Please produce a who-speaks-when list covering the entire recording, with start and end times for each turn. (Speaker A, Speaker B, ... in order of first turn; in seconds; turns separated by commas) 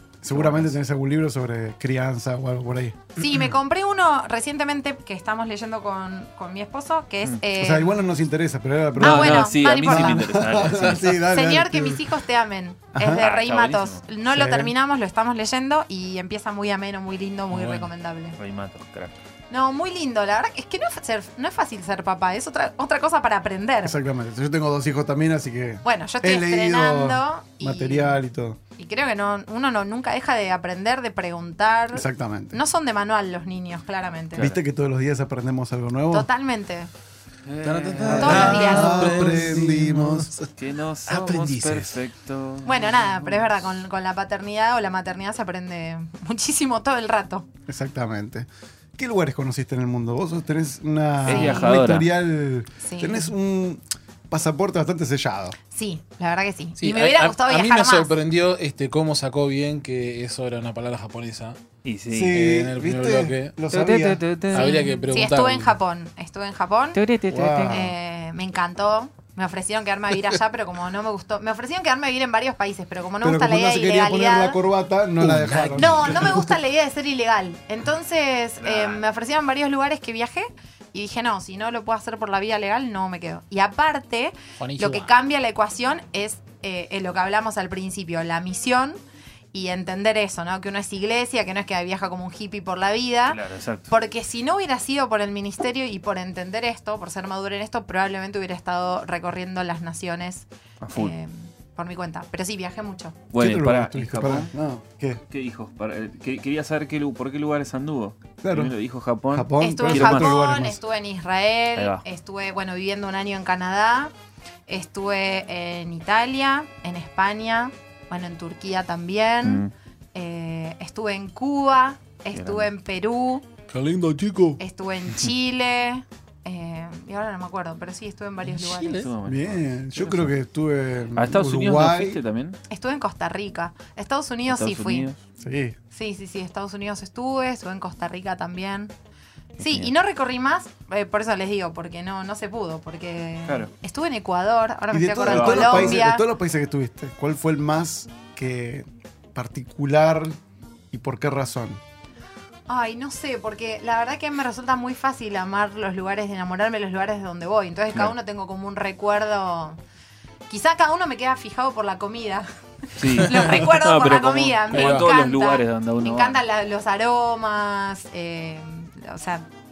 Speaker A: 0.2-3.0, Speaker B: 0.3-0.7, Speaker C: 3.2-8.0, Speaker A: 7.6-12.1, Speaker C: 9.0-10.3, Speaker B: 9.0-11.1, Speaker C: 10.8-18.4, Speaker A: 12.9-13.2, Speaker B: 13.2-14.1, Speaker A: 14.3-14.7, Speaker D: 17.5-17.9, Speaker B: 18.4-19.2, Speaker C: 19.5-24.0, Speaker A: 23.8-28.6, Speaker C: 25.8-28.2, Speaker C: 28.8-34.5, Speaker A: 31.9-32.6, Speaker B: 34.3-34.6, Speaker A: 34.4-36.3, Speaker C: 36.1-36.9, Speaker B: 37.5-38.6, Speaker D: 37.6-40.5, Speaker A: 38.0-40.4, Speaker C: 38.1-39.2, Speaker B: 40.6-43.4, Speaker D: 41.1-42.0, Speaker C: 42.6-47.5, Speaker A: 47.7-55.6, Speaker B: 51.3-52.1, Speaker C: 51.3-51.8, Speaker C: 52.8-53.3, Speaker C: 55.7-58.1, Speaker D: 56.8-61.6, Speaker B: 61.8-62.4, Speaker A: 62.1-64.3, Speaker D: 62.3-63.5, Speaker B: 63.7-65.1, Speaker D: 64.5-65.8, Speaker C: 64.5-67.0, Speaker B: 67.0-67.8, Speaker A: 67.3-67.9, Speaker C: 67.6-74.6, Speaker A: 73.2-76.6, Speaker D: 75.2-76.2, Speaker C: 75.7-89.0, Speaker B: 78.6-79.0, Speaker D: 84.6-85.1, Speaker C: 89.5-103.2, Speaker B: 93.3-93.9, Speaker B: 100.8-101.1, Speaker B: 103.3-104.5, Speaker A: 103.4-105.2, Speaker B: 105.3-110.3, Speaker A: 108.4-108.7, Speaker A: 109.3-110.8, Speaker C: 109.6-114.1, Speaker B: 111.8-112.0, Speaker C: 114.7-119.6, Speaker B: 119.4-119.7, Speaker C: 120.1-123.5, Speaker B: 122.3-122.7, Speaker D: 123.7-124.6, Speaker C: 124.6-129.1, Speaker D: 128.6-129.1, Speaker B: 128.9-130.3, Speaker A: 129.2-132.2, Speaker B: 131.1-132.6, Speaker C: 132.7-135.1, Speaker B: 134.5-135.2, Speaker A: 135.4-135.8, Speaker C: 135.9-138.9, Speaker B: 139.6-139.9, Speaker C: 139.6-146.2, Speaker A: 144.9-150.3, Speaker B: 145.2-146.1, Speaker A: 150.9-151.8, Speaker C: 152.7-159.8, Speaker C: 160.5-169.4, Speaker B: 163.0-166.4, Speaker D: 163.2-163.5, Speaker D: 164.7-165.1